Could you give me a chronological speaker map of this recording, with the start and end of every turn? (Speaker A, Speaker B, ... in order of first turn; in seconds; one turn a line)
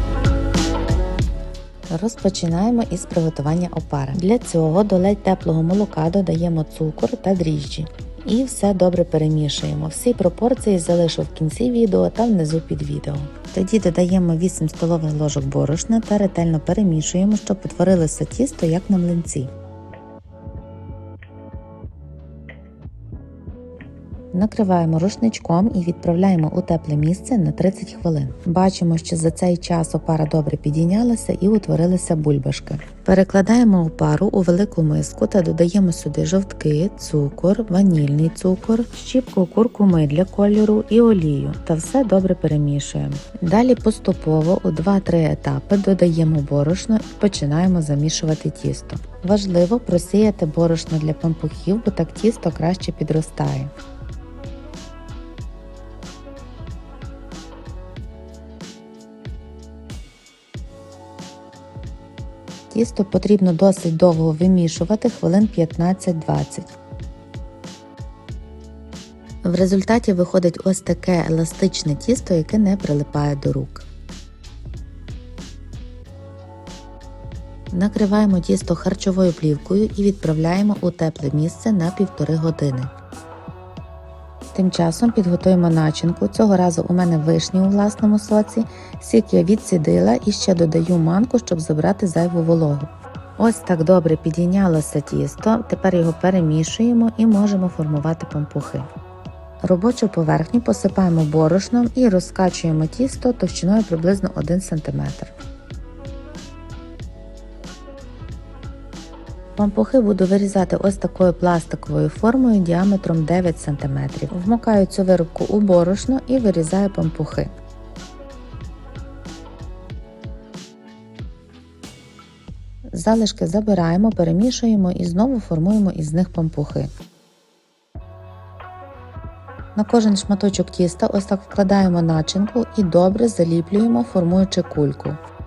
Speaker A: 1.9-19.5
Speaker A: 24.3-53.7
Speaker A: 62.7-66.7
Speaker A: 69.4-73.9
Speaker A: 77.7-82.9
Speaker A: 84.5-98.9
Speaker A: 99.6-105.3
Speaker A: 109.6-117.5
Speaker A: 122.9-126.9
Speaker A: 129.7-135.2